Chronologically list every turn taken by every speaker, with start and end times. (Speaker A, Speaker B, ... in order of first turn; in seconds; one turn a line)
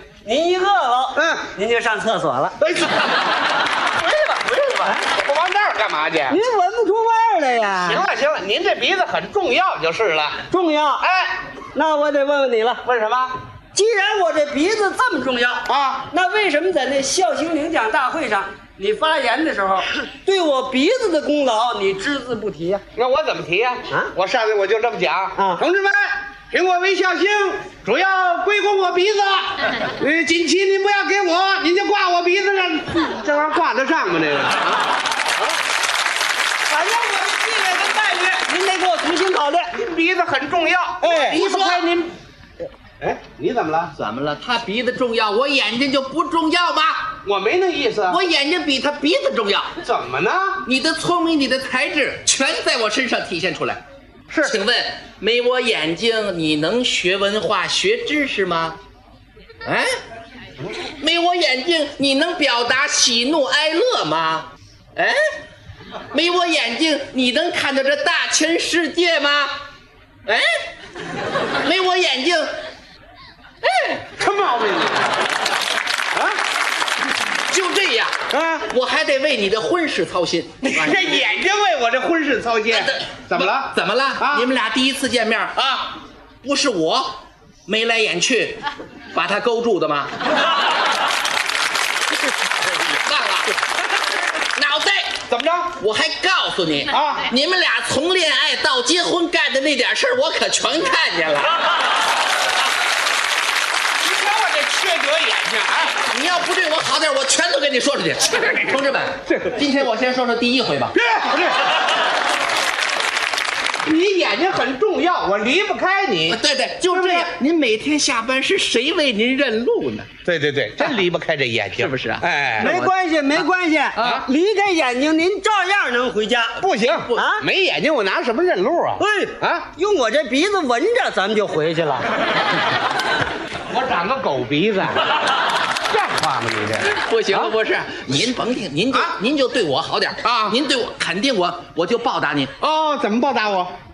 Speaker A: 0.2-2.6
Speaker B: 1.1-1.4
Speaker B: 2.6-3.1
Speaker A: 4.0-5.0
Speaker B: 5.0-6.4
Speaker A: 6.3-8.0
Speaker B: 7.8-10.4
Speaker A: 10.5-11.1
Speaker B: 11.0-11.3
Speaker A: 11.7-12.8
Speaker B: 12.8-13.3
Speaker A: 13.7-22.8
Speaker B: 15.7-16.1
Speaker B: 23.0-34.8
Speaker A: 36.7-39.7
Speaker B: 39.7-42.1
Speaker A: 41.0-41.4
Speaker C: 41.1-41.9
Speaker B: 43.0-43.9
Speaker C: 44.0-47.1
Speaker B: 47.2-48.2
Speaker C: 48.1-49.7
Speaker B: 49.8-50.6
Speaker C: 50.6-53.8
Speaker C: 54.4-58.8
Speaker C: 59.7-60.0
Speaker C: 61.0-65.2
Speaker C: 66.1-69.5
Speaker C: 71.6-72.5
Speaker C: 73.6-74.0
Speaker B: 74.2-75.2
Speaker C: 77.5-78.2
Speaker B: 78.3-78.7
Speaker C: 78.7-81.3
Speaker B: 80.6-84.5
Speaker C: 82.7-88.6
Speaker C: 89.1-90.1
Speaker C: 93.0-93.5
Speaker C: 94.5-95.2
Speaker B: 95.3-95.8
Speaker C: 95.8-101.6
Speaker B: 96.9-97.3
Speaker B: 104.0-106.0
Speaker C: 105.9-110.9
Speaker B: 109.3-109.6
Speaker B: 110.9-111.6
Speaker B: 113.8-117.3
Speaker C: 116.3-120.1
Speaker B: 120.2-122.7
Speaker C: 121.8-122.9
Speaker A: 122.6-126.6
Speaker B: 124.0-124.2
Speaker B: 126.6-129.7
Speaker C: 126.9-127.2
Speaker A: 127.2-127.5
Speaker A: 129.0-132.1
Speaker B: 133.7-135.0
Speaker B: 135.9-137.5
Speaker C: 136.9-142.5
Speaker B: 138.9-139.2
Speaker B: 140.2-140.6
Speaker B: 142.6-143.7